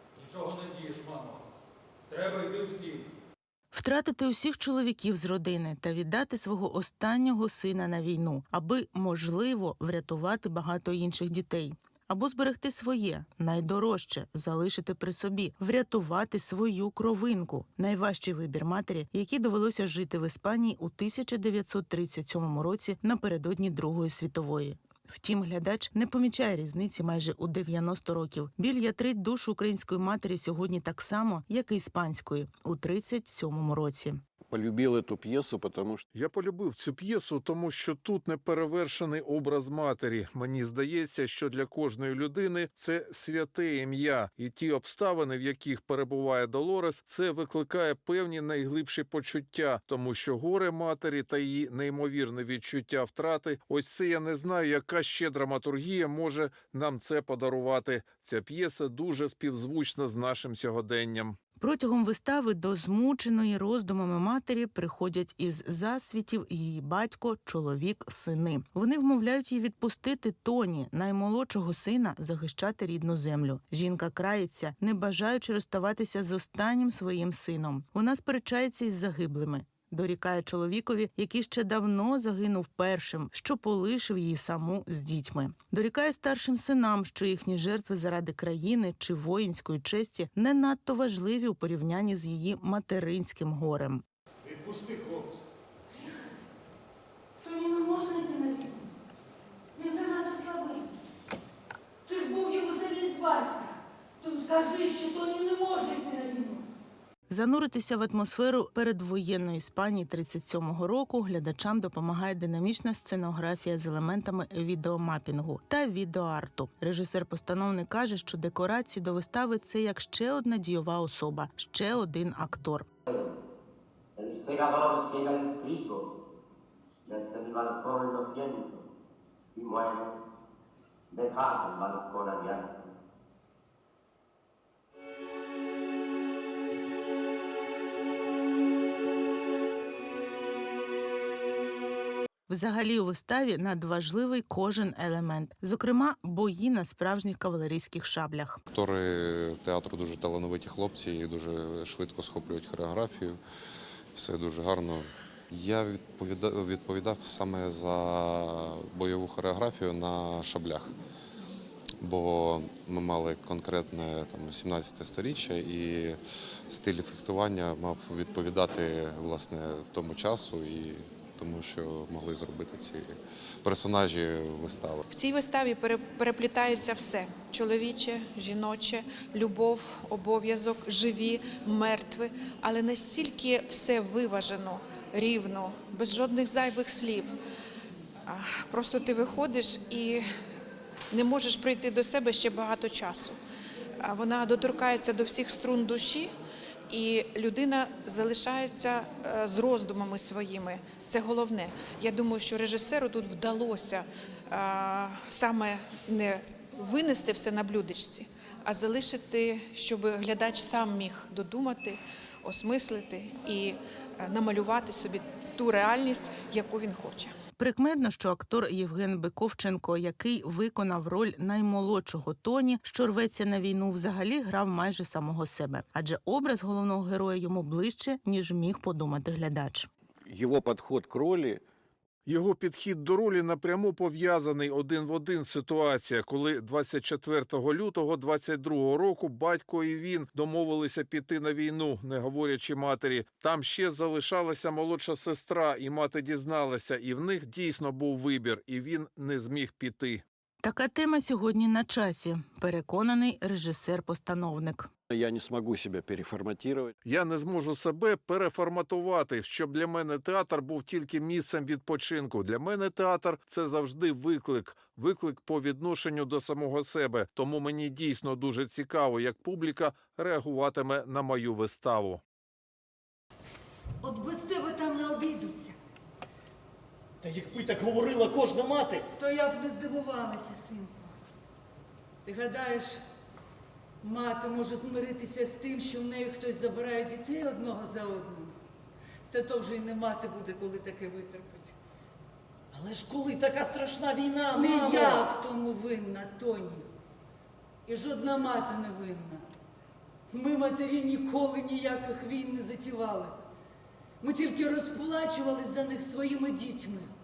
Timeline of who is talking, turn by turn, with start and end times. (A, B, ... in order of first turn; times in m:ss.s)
0:00.3-0:01.4 A
0:02.1-0:03.0 A
0:03.7-0:34.2 B
0:34.5-0:36.0 C
0:36.2-1:01.4 D
0:40.4-0:42.0 E
0:53.7-0:55.4 E
0:57.4-0:59.4 E
1:00.0-1:00.3 E
1:01.0-1:01.3 E
1:01.6-1:34.0 B
1:34.5-1:35.4 F
1:37.4-1:38.9 G
1:39.8-1:41.0 G
1:42.0-1:46.7 G
1:47.3-2:02.9 B
2:03.1-2:03.3 H
2:04.2-2:06.1 H
2:07.0-2:08.8 H
2:09.6-2:10.1 H
2:11.1-2:12.7 H
2:22.5-2:28.6 B
2:28.7-2:33.4 I
2:34.1-2:41.0 I
2:42.0-2:46.2 I
2:46.7-2:55.0 I
2:55.1-3:07.3 E
3:08.3-3:10.2 E
3:11.1-3:13.4 E
3:14.0-3:16.3 E
3:16.9-3:37.3 E
3:37.6-3:49.9 B
3:50.3-3:51.6 C
3:52.3-4:10.2 D
4:07.0-4:07.4 E
4:10.6-4:14.9 B
4:15.1-4:16.9 C
4:17.0-4:32.2 D
4:21.8-4:22.4 E
4:34.0-4:35.8 G
4:37.2-4:39.1 F
4:39.2-4:41.1 G
4:42.2-4:43.0 G
4:44.0-4:48.6 G
4:49.3-4:51.8 G
4:52.7-4:55.3 F
4:54.5-4:56.9 G
4:57.9-4:59.4 G
5:00.3-5:03.4 G
5:04.2-5:07.1 G